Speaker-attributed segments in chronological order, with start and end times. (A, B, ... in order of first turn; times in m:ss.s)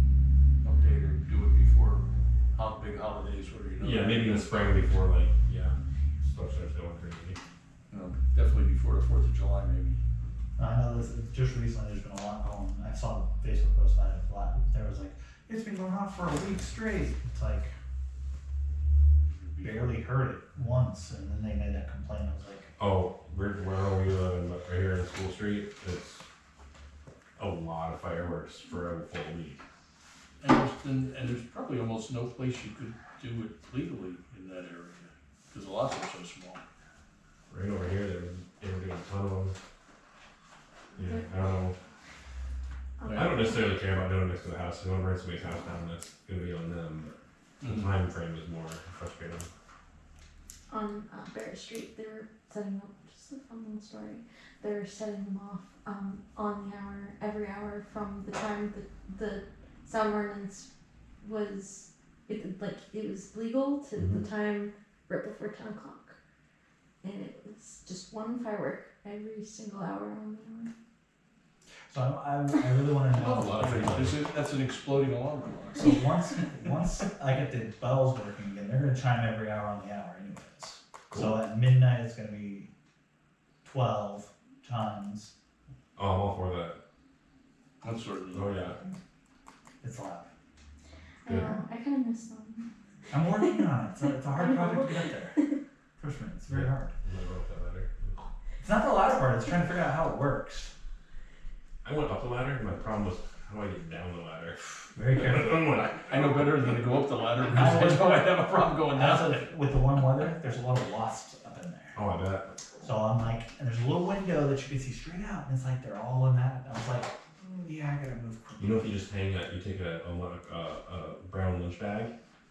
0:00.6-0:04.9 A
0:03.8-0:07.4 B
0:07.9-0:10.0 A
0:10.6-0:17.7 C
0:19.2-0:20.0 A
0:19.6-0:22.7 C
0:22.8-0:26.3 B
0:27.4-0:29.6 B
0:30.4-0:36.6 A
0:37.5-0:39.6 B
0:40.9-0:41.4 D
0:41.0-0:41.8 B
0:43.0-0:43.9 D
0:43.1-0:43.4 A
0:43.1-0:49.5 B
0:47.6-0:47.9 A
0:50.7-1:00.7 D
1:01.2-1:06.2 D
1:07.0-1:10.7 D
1:11.9-1:14.1 C
1:13.2-1:16.0 A
1:15.8-1:22.7 C
1:21.1-1:21.4 B
1:23.6-1:25.3 C
1:26.0-1:26.8 B
1:27.8-1:28.8 A
1:28.3-1:28.8 B
1:29.8-1:30.3 C
1:31.2-1:32.7 D
1:31.3-1:31.6 B
1:33.1-1:35.4 C
1:33.3-1:35.4 D
1:36.0-1:36.9 C
1:36.5-1:38.3 B
1:38.6-1:40.7 C
1:41.8-1:46.8 B
1:45.0-1:45.6 C
1:45.8-1:49.5 A
1:47.5-1:48.3 C
1:48.9-1:52.0 C
1:52.0-1:52.8 B
1:52.8-1:59.0 C
1:58.6-2:02.1 B